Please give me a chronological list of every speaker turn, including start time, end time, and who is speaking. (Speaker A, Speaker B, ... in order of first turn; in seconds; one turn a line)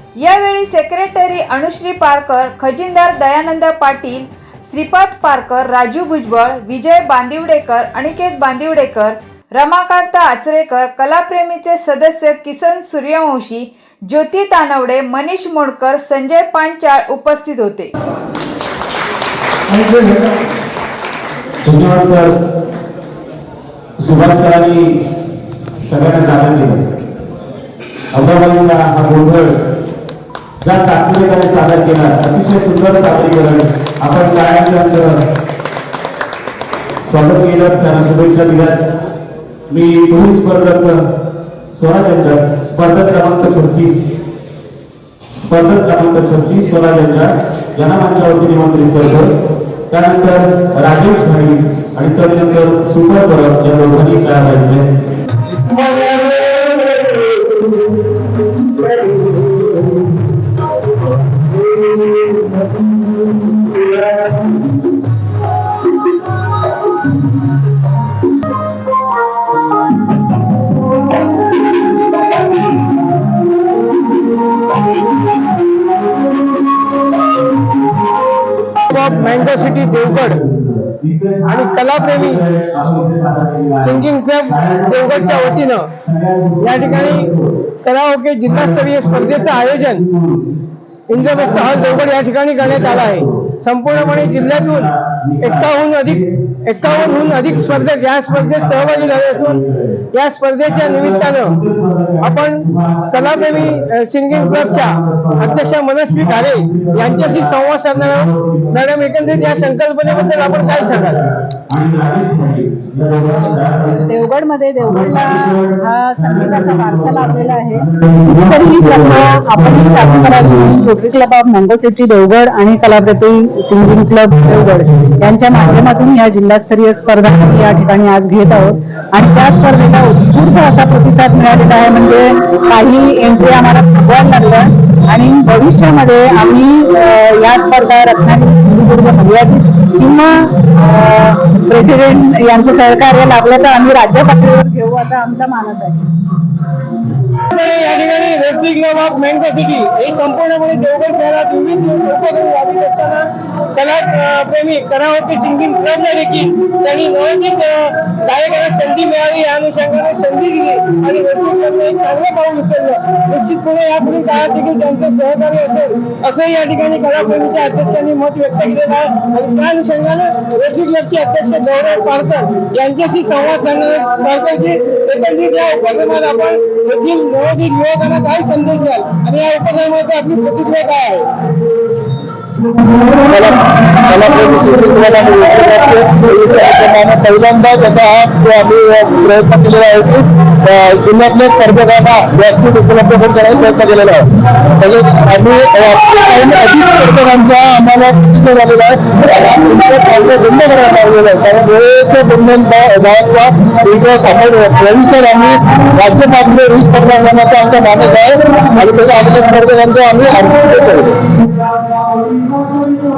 Speaker A: 0.2-17.9
Speaker B: 21.6-22.3
Speaker B: 24.0-24.9
Speaker B: 25.8-26.8
Speaker B: 28.1-29.6
Speaker B: 30.6-35.2
Speaker B: 37.0-38.9
Speaker B: 39.7-41.0
Speaker B: 41.7-44.1
Speaker B: 45.3-49.3
Speaker B: 49.9-54.9
Speaker C: 55.7-57.3
Speaker B: 78.9-87.5
Speaker C: 78.9-80.4
Speaker C: 81.5-82.4
Speaker C: 83.8-85.9
Speaker C: 86.6-87.3
Speaker C: 87.8-90.0
Speaker B: 88.4-90.5
Speaker C: 91.1-94.9
Speaker B: 91.1-100.1
Speaker C: 95.4-99.6
Speaker C: 100.1-101.5
Speaker B: 100.6-114.2
Speaker C: 102.2-111.2
Speaker D: 113.9-117.8
Speaker B: 114.8-119.0
Speaker D: 118.4-146.0
Speaker C: 147.5-181.3
Speaker E: 183.3-194.2
Speaker E: 194.8-211.1